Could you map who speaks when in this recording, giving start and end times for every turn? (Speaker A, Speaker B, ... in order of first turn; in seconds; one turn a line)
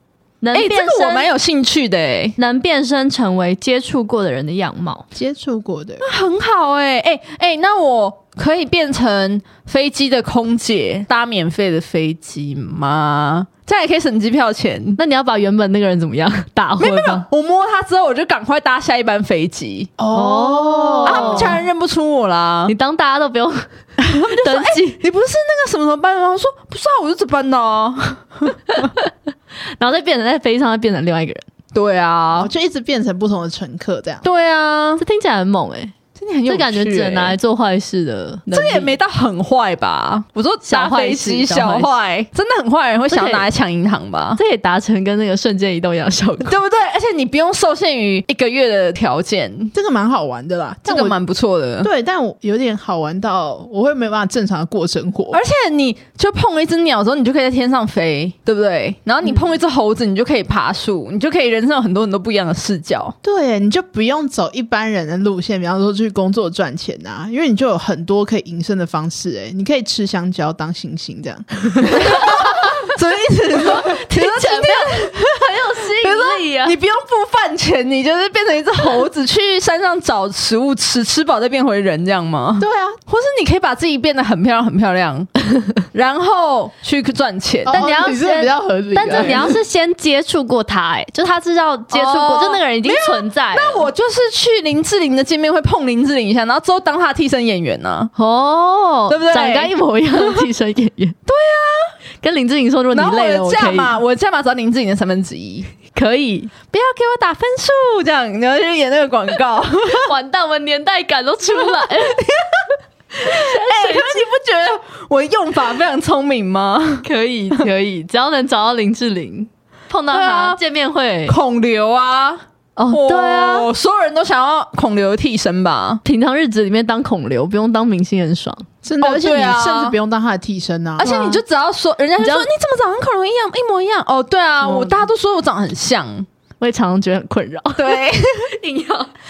Speaker A: 0.4-1.3
Speaker B: 0.5-2.4
Speaker A: 2.4-5.1
Speaker C: 5.1-6.0
Speaker B: 6.0-15.0
Speaker A: 15.0-17.3
Speaker B: 16.8-19.9
Speaker C: 20.0-21.6
Speaker A: 20.1-21.6
Speaker B: 21.1-22.7
Speaker A: 22.7-25.0
Speaker B: 24.0-28.9
Speaker A: 28.8-29.1
Speaker A: 29.8-31.4
Speaker B: 31.7-32.5
Speaker C: 32.4-34.3
Speaker B: 34.2-35.0
Speaker A: 35.0-35.9
Speaker B: 36.2-37.4
Speaker A: 36.5-38.9
Speaker B: 38.5-44.4
Speaker A: 40.6-41.9
Speaker A: 43.1-43.5
Speaker A: 44.4-46.6
Speaker B: 46.4-49.7
Speaker C: 49.7-51.2
Speaker B: 50.9-51.9
Speaker C: 51.8-55.4
Speaker B: 55.3-63.1
Speaker C: 63.2-72.3
Speaker B: 71.9-87.8
Speaker A: 73.7-76.8
Speaker C: 82.6-83.0
Speaker C: 87.7-89.6
Speaker A: 87.7-93.9
Speaker B: 89.1-89.4
Speaker B: 91.9-98.1
Speaker A: 98.2-101.2
Speaker B: 99.1-100.4
Speaker B: 101.3-101.9
Speaker A: 102.2-104.0
Speaker B: 102.9-105.7
Speaker A: 105.9-106.5
Speaker B: 106.7-110.1
Speaker A: 109.9-112.2
Speaker B: 111.7-112.4
Speaker A: 113.2-114.2
Speaker B: 113.2-117.1
Speaker A: 117.0-121.4
Speaker B: 120.1-120.6
Speaker B: 121.3-126.0
Speaker A: 122.8-123.7
Speaker A: 126.0-128.7
Speaker C: 128.8-131.4
Speaker B: 129.0-130.0
Speaker B: 131.0-136.3
Speaker A: 132.2-132.5
Speaker A: 136.6-139.1
Speaker B: 137.8-138.5